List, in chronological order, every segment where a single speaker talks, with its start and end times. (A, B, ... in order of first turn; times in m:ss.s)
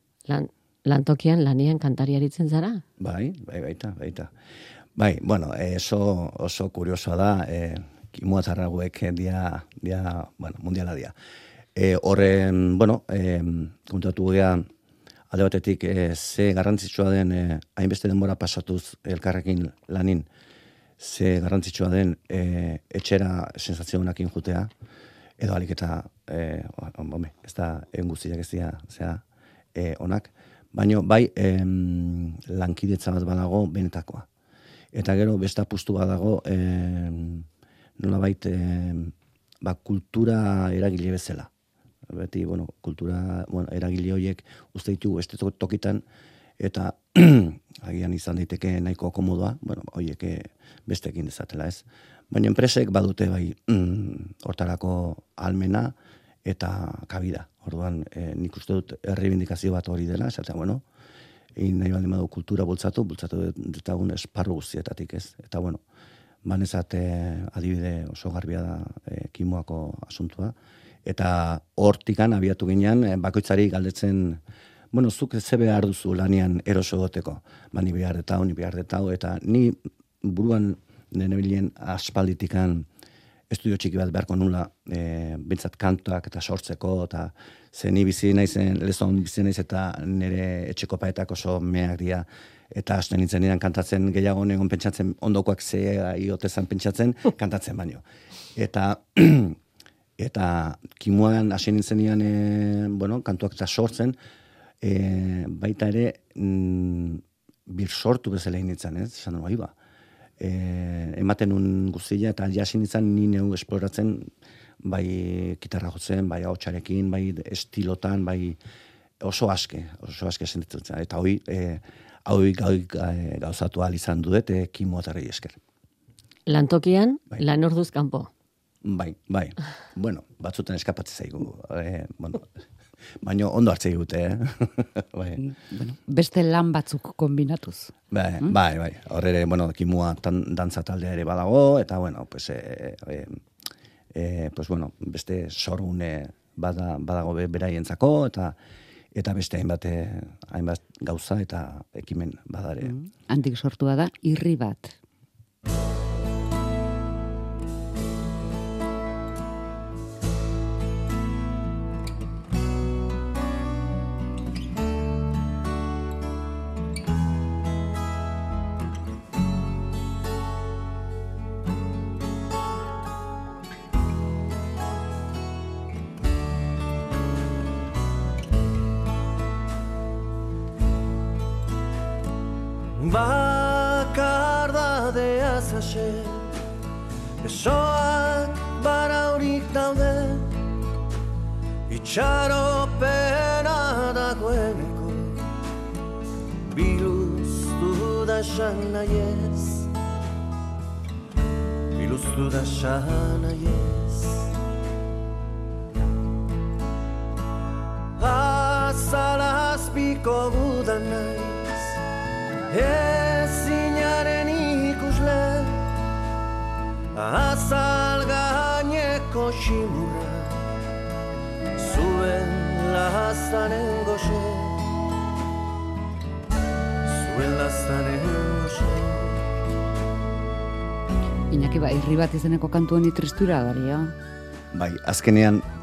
0:00.3-0:02.8 A
0:03.0-0:04.3 B
0:05.0-0:11.1 B
0:11.8-0:14.6 B
0:15.3-0:20.3 B
0:21.0-0:24.7 B
0:25.4-0:29.2 B
0:29.8-0:34.3 B
0:34.9-0:37.5 B
0:38.0-0:41.5 B
0:42.1-0:46.0 B
0:46.6-1:00.8 B
1:01.6-1:05.8 B
1:06.4-1:10.6 B
1:11.1-1:14.4 B
1:14.9-1:22.9 B
1:23.5-1:38.0 B
1:38.6-1:39.6 B
1:40.2-1:44.2 B
1:44.8-1:49.7 B
1:50.4-1:54.3 B
1:54.8-1:58.6 B
1:59.2-2:05.6 B
2:06.5-2:08.3 A
2:08.8-2:12.5 B
2:13.2-2:15.4 B
2:15.4-2:17.9 C
2:18.1-2:23.4 B
2:24.1-2:28.6 B
2:29.1-2:33.0 B
2:32.8-2:35.0 C
3:03.0-3:06.5 D
3:07.4-3:10.6 D
3:11.9-3:15.4 D
3:16.6-3:19.9 D
3:21.9-3:24.5 D
3:28.2-3:32.0 D
3:32.7-3:35.9 D
3:37.1-3:40.6 D
3:41.8-3:44.8 D
3:47.0-3:49.4 D
3:51.5-3:54.1 C
3:54.7-3:55.6 B